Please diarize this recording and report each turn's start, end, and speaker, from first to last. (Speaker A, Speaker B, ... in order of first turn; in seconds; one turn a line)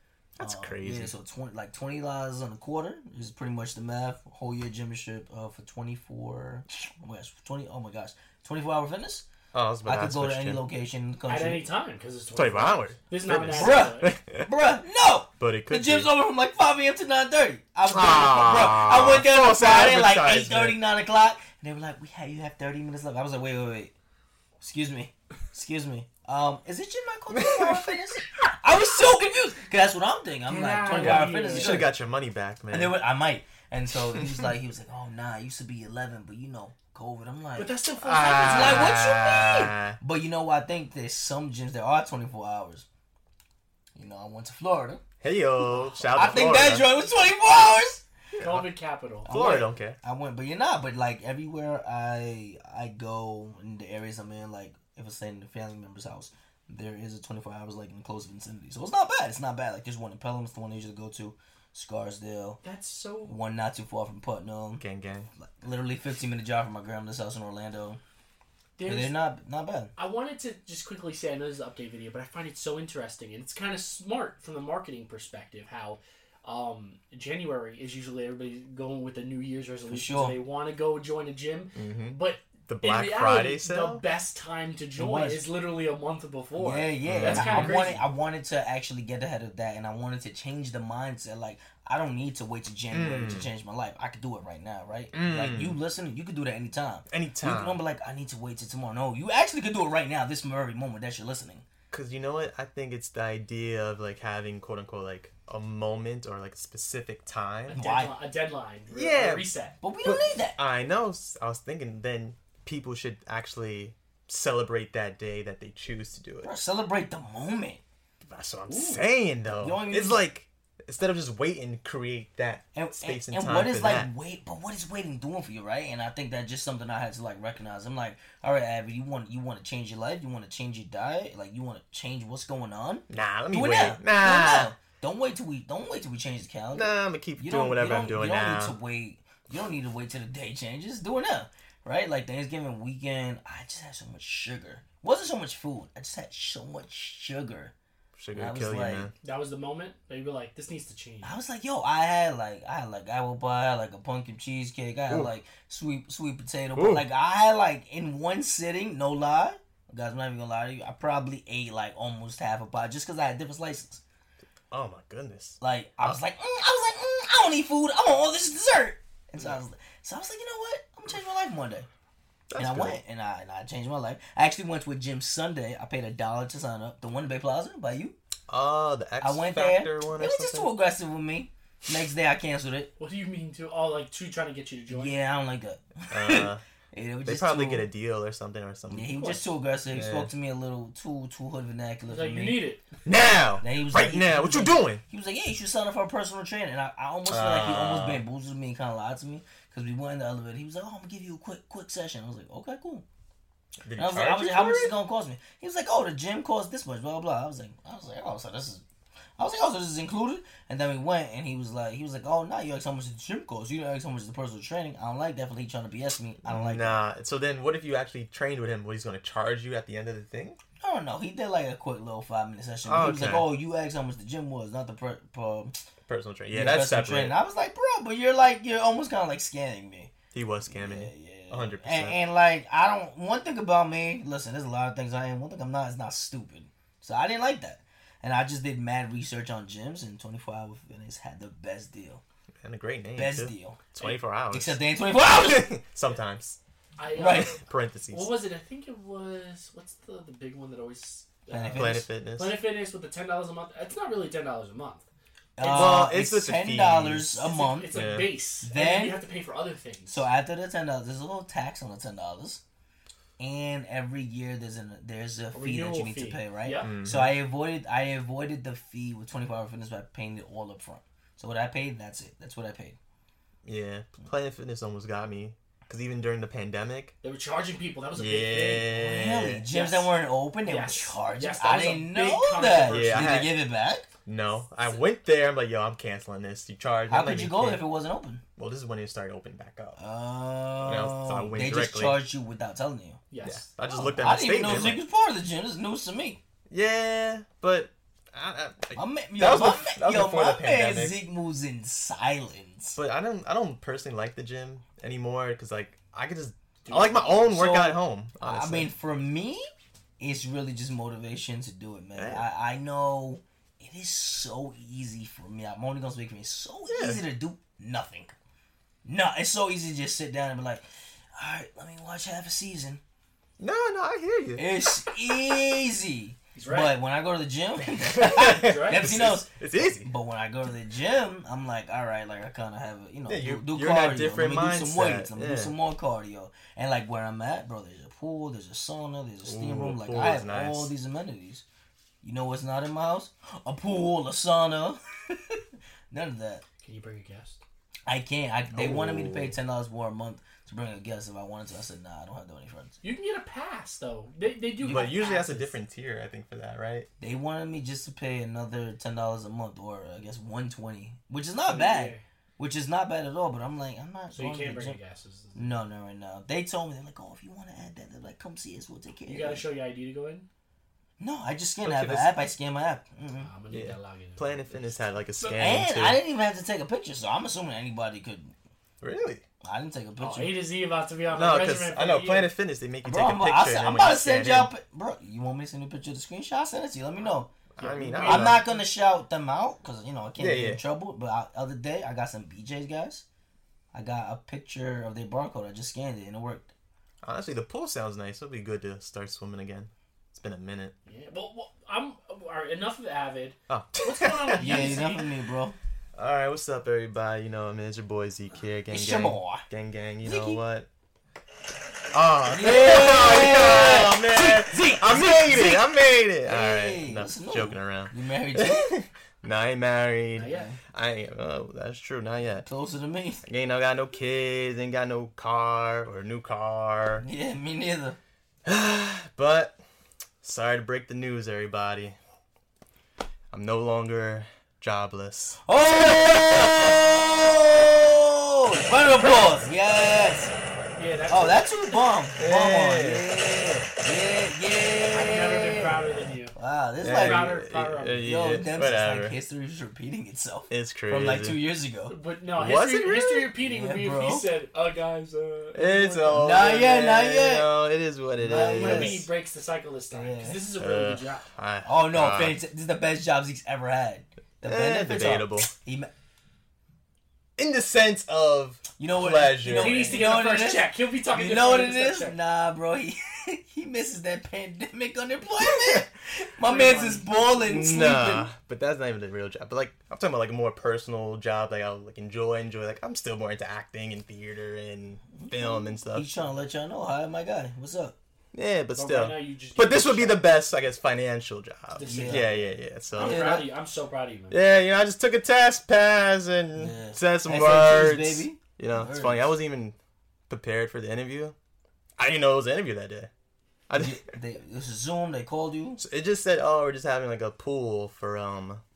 Speaker A: 0.4-1.1
Speaker B: 0.4-9.2
Speaker A: 9.5-10.6
Speaker B: 9.8-11.7
Speaker C: 11.3-14.1
Speaker A: 12.3-14.5
Speaker B: 13.5-23.9
Speaker A: 15.4-16.1
Speaker A: 17.9-20.8
Speaker B: 24.6-31.9
Speaker A: 27.4-27.8
Speaker C: 30.4-31.8
Speaker A: 30.9-33.0
Speaker B: 32.7-37.7
Speaker C: 37.5-39.1
Speaker A: 38.0-40.0
Speaker B: 38.3-42.9
Speaker B: 43.9-45.0
Speaker A: 45.2-46.9
Speaker C: 45.9-46.4
Speaker B: 46.1-48.0
Speaker A: 48.4-48.7
Speaker C: 48.4-49.3
Speaker B: 49.2-62.6
Speaker A: 49.3-50.0
Speaker C: 62.6-63.4
Speaker B: 63.2-64.8
Speaker A: 64.8-65.3
Speaker B: 65.4-68.0
Speaker C: 68.8-69.2
Speaker B: 68.8-69.9
Speaker C: 70.0-88.0
Speaker B: 79.9-80.4
Speaker A: 81.7-84.0
Speaker B: 85.0-85.5
Speaker B: 86.5-101.7
Speaker A: 87.0-88.0
Speaker A: 92.9-93.5
Speaker A: 95.1-95.8
Speaker A: 97.1-97.8
Speaker A: 101.9-107.8
Speaker B: 107.7-108.2
Speaker C: 107.7-109.8
Speaker A: 108.9-109.5
Speaker B: 109.8-110.6
Speaker A: 110.0-116.5
Speaker B: 116.4-117.8
Speaker A: 118.2-124.1
Speaker C: 118.7-119.0
Speaker B: 119.5-120.3
Speaker B: 122.7-147.7
Speaker A: 133.1-134.7
Speaker A: 136.7-138.8
Speaker A: 148.2-149.1
Speaker B: 148.3-149.1
Speaker C: 149.2-151.4
Speaker B: 151.2-164.0
Speaker A: 155.1-155.3
Speaker A: 156.7-157.1
Speaker A: 164.7-166.1
Speaker B: 165.6-171.9
Speaker A: 172.5-173.0
Speaker B: 172.6-178.2
Speaker A: 178.5-180.7
Speaker B: 179.2-182.9
Speaker C: 183.0-185.2
Speaker B: 184.9-187.9
Speaker A: 186.1-186.6
Speaker A: 187.2-189.2
Speaker B: 188.9-192.7
Speaker C: 189.2-189.5
Speaker A: 189.9-190.3
Speaker C: 192.1-192.8
Speaker A: 193.0-195.0
Speaker B: 193.6-203.0
Speaker A: 197.3-198.2
Speaker A: 203.8-205.0
Speaker B: 203.9-208.8
Speaker B: 209.4-217.0
Speaker A: 216.4-220.6
Speaker B: 220.8-225.8
Speaker A: 222.8-223.5
Speaker A: 226.1-227.3
Speaker B: 226.5-230.1
Speaker A: 230.3-232.2
Speaker B: 230.7-242.2
Speaker A: 242.6-246.6
Speaker B: 243.2-243.9
Speaker B: 244.5-245.7
Speaker C: 247.0-255.1
Speaker B: 247.1-247.6
Speaker A: 247.6-248.4
Speaker B: 251.5-252.0
Speaker A: 251.7-252.6
Speaker B: 255.6-259.2
Speaker C: 255.6-256.1
Speaker A: 255.7-258.3
Speaker C: 257.4-260.3
Speaker B: 260.1-262.6
Speaker B: 263.4-273.0
Speaker C: 265.5-266.9
Speaker A: 266.7-267.4
Speaker A: 273.6-277.1
Speaker C: 277.2-279.1
Speaker A: 278.1-279.7
Speaker B: 279.0-284.1
Speaker C: 279.7-283.1
Speaker A: 282.9-283.6
Speaker A: 284.2-287.9
Speaker C: 284.8-285.0
Speaker B: 287.1-288.4
Speaker A: 288.6-290.0
Speaker B: 290.0-293.3
Speaker A: 290.8-292.2
Speaker C: 293.3-293.7
Speaker A: 293.4-295.0
Speaker B: 293.9-296.4
Speaker A: 296.7-301.2
Speaker B: 298.9-303.0
Speaker A: 302.9-308.9
Speaker C: 306.8-307.6
Speaker B: 307.5-309.6
Speaker B: 310.2-318.3
Speaker A: 312.1-312.5
Speaker A: 316.9-317.2
Speaker B: 319.0-320.8
Speaker B: 321.4-323.0
Speaker A: 323.6-324.7
Speaker B: 324.5-341.6
Speaker C: 326.5-326.9
Speaker A: 328.0-330.1
Speaker C: 328.5-329.1
Speaker A: 333.2-335.8
Speaker A: 339.4-340.9
Speaker B: 342.2-346.6
Speaker C: 346.8-347.6
Speaker B: 348.1-353.0
Speaker A: 348.7-349.6
Speaker C: 353.0-355.7
Speaker B: 354.8-355.2
Speaker A: 354.8-357.1
Speaker B: 357.2-365.0
Speaker C: 361.6-362.2
Speaker C: 364.3-365.8
Speaker B: 365.5-369.7
Speaker C: 369.2-370.5
Speaker B: 371.2-373.5
Speaker A: 371.8-372.4
Speaker C: 373.3-375.8
Speaker A: 373.7-376.2
Speaker B: 375.5-378.5
Speaker A: 379.0-379.4
Speaker B: 379.6-380.6
Speaker C: 380.2-382.5
Speaker A: 381.3-384.7
Speaker B: 383.0-387.5
Speaker A: 387.8-388.7
Speaker C: 387.8-388.8
Speaker B: 388.1-393.2
Speaker A: 390.4-390.8
Speaker B: 393.9-396.7
Speaker A: 397.2-400.9
Speaker C: 401.1-405.3
Speaker A: 403.7-405.1
Speaker B: 404.6-405.8
Speaker A: 406.1-410.9
Speaker B: 408.9-409.6
Speaker B: 410.2-410.6
Speaker A: 412.1-422.6
Speaker B: 412.4-418.9
Speaker C: 420.4-420.7
Speaker B: 420.4-420.8
Speaker B: 422.6-423.4
Speaker A: 423.4-427.3
Speaker B: 427.2-428.2
Speaker A: 428.6-429.8
Speaker A: 430.4-432.2
Speaker A: 433.5-435.6
Speaker B: 435.6-440.5
Speaker C: 441.0-441.7
Speaker B: 441.3-447.6
Speaker A: 442.4-443.3
Speaker C: 445.1-448.2
Speaker A: 447.0-449.4
Speaker B: 448.2-452.1
Speaker A: 450.7-451.6
Speaker C: 452.1-456.7
Speaker A: 452.5-453.5
Speaker B: 453.6-454.5
Speaker A: 455.7-459.3
Speaker B: 456.3-457.7
Speaker B: 458.4-459.3
Speaker C: 458.5-461.5
Speaker B: 460.1-460.7
Speaker A: 460.8-462.6
Speaker B: 461.8-466.1
Speaker A: 464.6-465.7
Speaker A: 467.6-470.4
Speaker B: 469.0-478.5
Speaker C: 469.7-472.4
Speaker A: 475.6-476.0
Speaker C: 476.6-477.4
Speaker A: 477.6-486.3
Speaker B: 485.4-488.1
Speaker A: 488.5-493.5
Speaker C: 488.9-490.5
Speaker C: 491.9-494.6
Speaker B: 492.0-492.5
Speaker B: 493.1-493.7
Speaker A: 494.5-499.9
Speaker B: 496.7-499.6
Speaker A: 500.5-501.6
Speaker A: 502.2-503.3
Speaker A: 503.9-504.2
Speaker B: 503.9-506.0
Speaker A: 506.0-508.8